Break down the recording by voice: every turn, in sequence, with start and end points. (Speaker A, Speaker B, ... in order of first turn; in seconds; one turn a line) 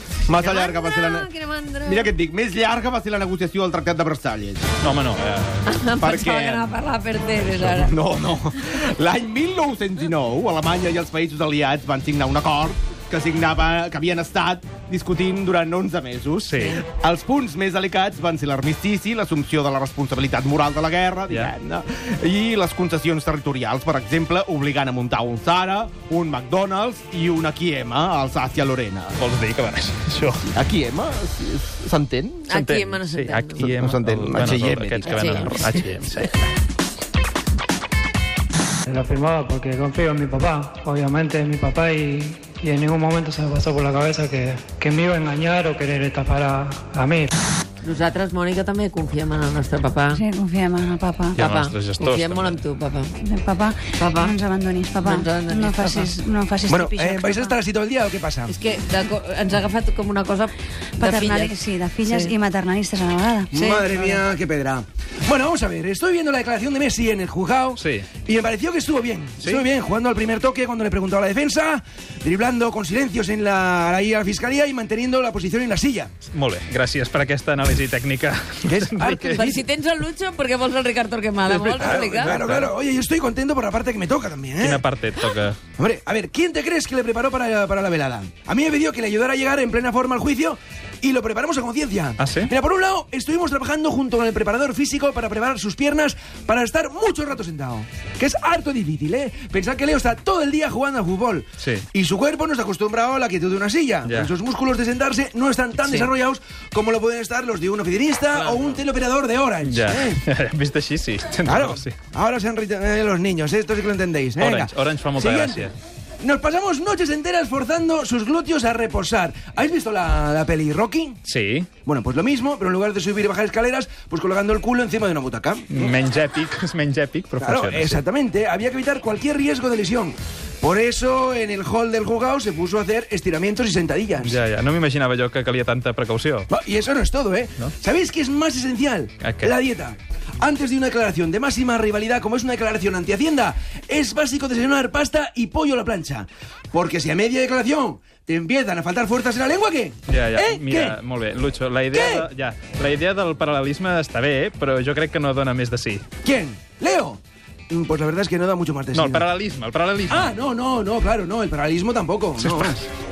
Speaker A: 0.3-1.3
Speaker B: 0.4-2.1
Speaker A: 1.8-4.7
Speaker C: 4.8-5.7
Speaker B: 5.7-7.9
Speaker A: 6.0-6.7
Speaker C: 7.5-7.8
Speaker A: 7.7-29.2
Speaker C: 16.4-16.8
Speaker C: 29.2-30.4
Speaker A: 30.5-32.5
Speaker B: 32.5-33.7
Speaker C: 32.5-36.5
Speaker A: 33.6-35.6
Speaker B: 35.0-35.7
Speaker D: 38.9-47.3
Speaker B: 47.8-50.2
Speaker E: 50.1-51.4
Speaker C: 51.4-52.6
Speaker B: 51.4-53.1
Speaker E: 53.2-57.6
Speaker B: 54.0-54.3
Speaker B: 55.0-56.1
Speaker F: 56.7-58.5
Speaker B: 58.5-62.3
Speaker E: 61.0-63.5
Speaker F: 63.5-76.1
Speaker B: 63.5-63.8
Speaker C: 67.8-68.1
Speaker C: 76.3-79.5
Speaker F: 78.6-79.6
Speaker B: 79.3-82.4
Speaker C: 81.5-82.7
Speaker F: 81.7-84.8
Speaker C: 84.6-85.6
Speaker F: 85.8-110.2
Speaker C: 92.2-92.5
Speaker C: 101.6-101.8
Speaker C: 104.0-104.3
Speaker C: 108.3-108.8
Speaker C: 109.6-112.0
Speaker F: 111.4-115.7
Speaker C: 114.4-115.7
Speaker F: 116.2-121.2
Speaker C: 121.2-121.7
Speaker F: 121.8-125.9
Speaker C: 125.7-128.0
Speaker F: 127.4-134.4
Speaker C: 134.2-136.5
Speaker F: 136.5-151.0
Speaker C: 139.2-139.5
Speaker C: 150.1-156.0
Speaker F: 151.9-152.3
Speaker F: 156.2-159.2
Speaker C: 158.9-160.3
Speaker F: 160.1-162.8
Speaker C: 162.4-162.8